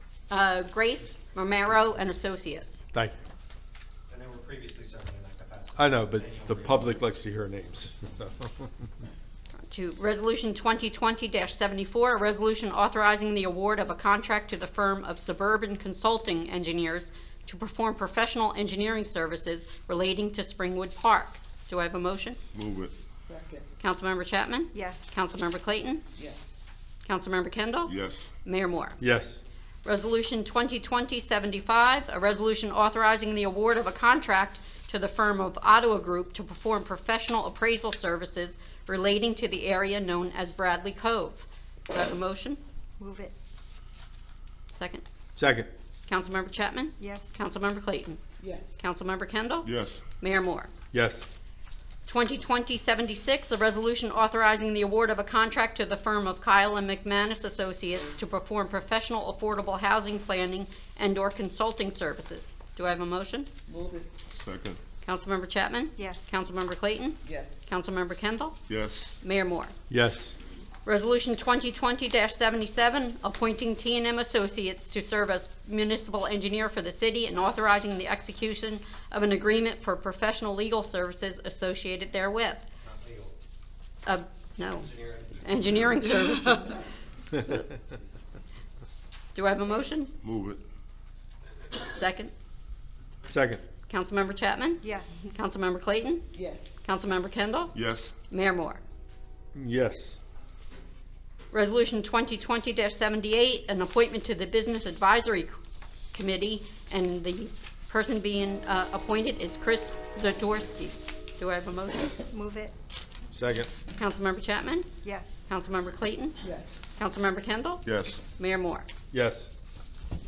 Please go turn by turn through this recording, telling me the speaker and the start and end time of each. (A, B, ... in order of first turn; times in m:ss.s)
0:00.3-0:02.8 A
0:02.9-0:03.2 B
0:04.1-0:05.8 C
0:05.8-0:08.7 B
0:09.6-0:22.4 A
0:22.5-0:22.9 D
0:23.2-0:23.7 E
0:23.8-0:26.0 A
0:24.7-0:25.2 F
0:26.2-0:26.6 E
0:27.0-0:29.0 A
0:27.9-0:28.3 D
0:29.0-0:29.4 B
0:29.8-0:42.6 A
0:43.0-0:43.3 F
0:44.7-0:45.0 A
0:45.4-0:45.7 B
0:46.1-0:48.2 A
0:47.0-0:47.4 F
0:48.4-0:48.8 E
0:48.8-0:50.7 A
0:49.6-0:50.0 D
0:50.9-0:51.2 B
0:52.1-1:03.5 A
1:03.7-1:04.1 E
1:04.3-1:04.8 D
1:05.0-1:08.6 A
1:06.0-1:06.4 F
1:07.2-1:07.6 E
1:08.7-1:09.1 D
1:09.2-1:09.7 A
1:09.9-1:10.3 B
1:10.9-1:22.7 A
1:22.8-1:23.3 C
1:24.1-1:26.8 A
1:25.0-1:25.2 C
1:29.4-1:30.1 A
1:30.2-1:30.6 D
1:31.8-1:32.3 A
1:33.3-1:33.6 B
1:33.9-1:36.3 A
1:34.8-1:35.4 F
1:36.3-1:36.8 E
1:36.8-1:37.8 A
1:37.7-1:38.1 D
1:38.3-1:38.8 A
1:39.6-1:40.2 B
1:41.5-1:45.6 A
1:46.1-1:52.2 A
1:52.3-1:52.7 F
1:53.3-1:53.7 B
1:54.0-1:54.9 A
1:55.0-1:55.4 F
1:55.5-1:56.4 A
1:56.4-1:56.8 E
1:57.0-1:58.9 A
1:57.8-1:58.2 D
1:59.1-1:59.5 B